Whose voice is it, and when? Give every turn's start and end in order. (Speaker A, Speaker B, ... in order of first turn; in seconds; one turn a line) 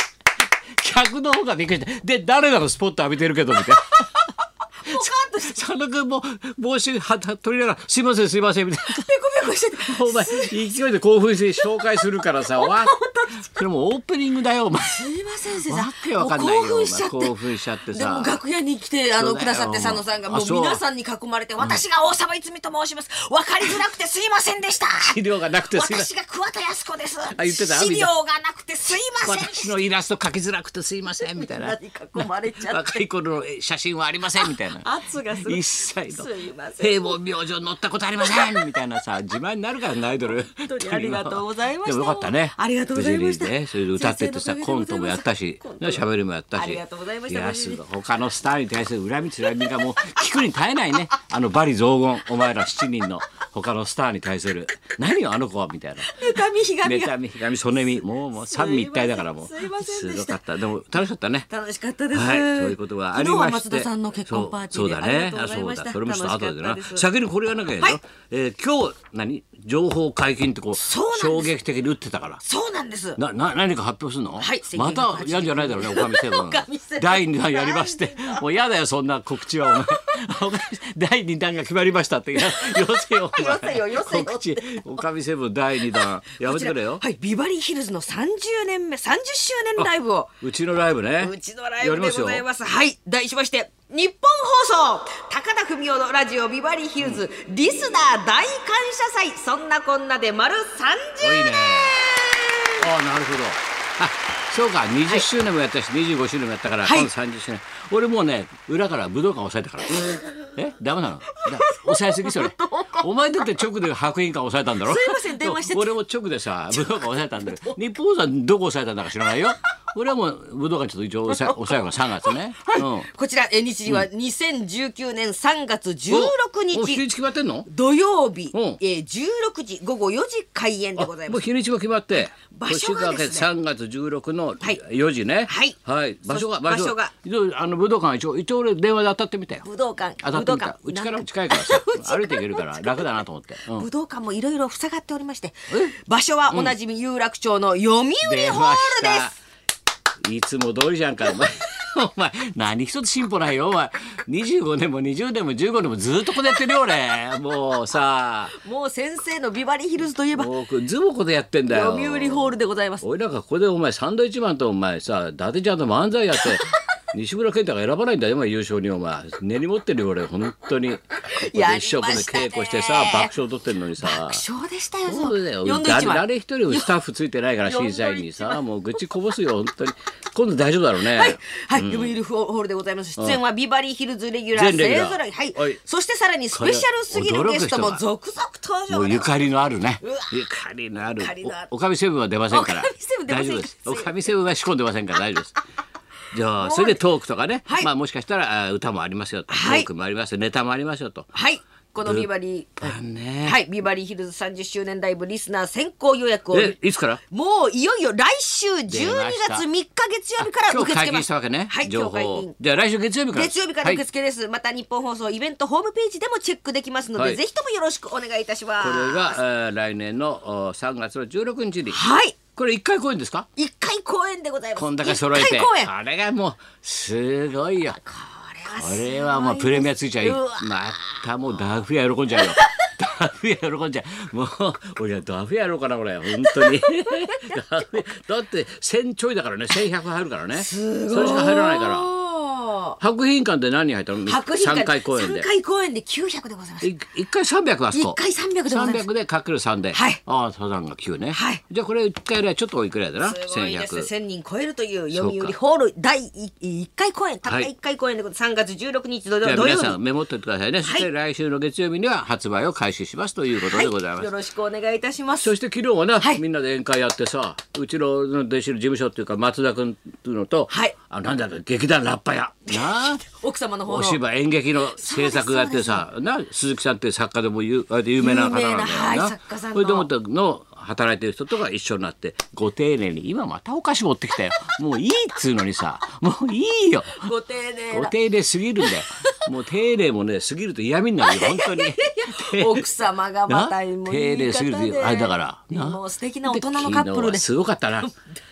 Speaker A: 0.8-4.2
Speaker B: 4.8-5.6
Speaker A: 4.9-9.1
Speaker B: 8.9-10.6
Speaker A: 9.8-18.4
Speaker B: 12.5-13.6
Speaker B: 14.9-17.4
Speaker B: 17.9-25.2
Speaker A: 19.2-20.8
Speaker A: 25.0-26.1
Speaker B: 25.7-29.7
Speaker A: 27.3-28.1
Speaker A: 29.2-56.2
Speaker B: 31.2-33.0
Speaker B: 34.4-37.2
Speaker B: 38.2-38.7
Speaker B: 40.7-46.0
Speaker B: 46.5-47.8
Speaker B: 56.0-57.2
Speaker A: 56.8-61.5
Speaker B: 58.4-60.4
Speaker B: 61.5-67.0
Speaker A: 62.1-72.4
Speaker B: 70.8-71.5
Speaker B: 72.4-73.2
Speaker A: 73.2-87.0
Speaker B: 74.4-78.4
Speaker B: 79.6-80.2
Speaker B: 82.3-85.0
Speaker B: 85.9-90.3
Speaker A: 90.4-92.4
Speaker B: 91.2-102.8
Speaker A: 101.2-102.0
Speaker A: 102.8-123.1
Speaker B: 106.8-107.1
Speaker B: 111.3-113.0
Speaker B: 114.8-115.9
Speaker B: 116.7-117.8
Speaker B: 119.2-119.5
Speaker B: 121.3-127.0
Speaker A: 126.1-127.7
Speaker B: 127.7-131.4
Speaker A: 128.5-128.8
Speaker A: 131.0-139.7
Speaker B: 132.4-133.5
Speaker B: 135.5-137.1
Speaker B: 139.6-143.1
Speaker A: 140.2-143.9
Speaker B: 143.7-149.3
Speaker A: 148.2-149.3
Speaker A: 150.2-158.6
Speaker B: 158.6-160.5
Speaker A: 160.3-174.4
Speaker B: 161.7-163.1
Speaker B: 171.3-173.3
Speaker B: 174.0-176.9
Speaker A: 175.1-182.1
Speaker B: 177.6-178.6
Speaker B: 181.1-189.4
Speaker A: 184.5-185.8
Speaker A: 186.5-188.0
Speaker A: 188.9-195.6
Speaker B: 190.0-190.4
Speaker B: 191.1-191.7
Speaker B: 192.5-194.2
Speaker A: 196.3-201.3
Speaker B: 196.6-197.0
Speaker B: 199.5-199.9
Speaker B: 201.3-202.9
Speaker A: 202.0-202.3
Speaker A: 202.8-203.6
Speaker B: 203.4-206.8
Speaker A: 206.5-207.2
Speaker B: 207.3-212.5
Speaker A: 208.9-209.6
Speaker A: 210.4-214.0
Speaker B: 213.3-219.4
Speaker A: 218.8-222.0
Speaker B: 221.9-222.4
Speaker A: 222.5-223.5
Speaker B: 223.6-225.9
Speaker A: 224.8-228.0
Speaker B: 227.9-231.2
Speaker A: 228.7-242.1
Speaker B: 232.3-232.9
Speaker B: 236.3-237.6
Speaker B: 240.5-243.0
Speaker A: 243.0-245.5
Speaker B: 244.2-246.9
Speaker A: 246.8-254.1
Speaker B: 247.9-249.1
Speaker B: 249.9-250.2
Speaker B: 251.3-251.6
Speaker B: 253.2-260.0
Speaker A: 255.1-255.5
Speaker A: 259.4-264.3
Speaker B: 260.8-261.1
Speaker B: 263.6-265.5
Speaker A: 265.4-273.2
Speaker B: 270.7-270.9
Speaker B: 272.7-274.2
Speaker A: 273.9-287.3
Speaker B: 274.9-276.1
Speaker B: 278.2-280.1
Speaker B: 287.2-288.1
Speaker A: 287.9-292.9
Speaker B: 288.8-289.3
Speaker B: 291.2-297.4
Speaker A: 293.5-298.1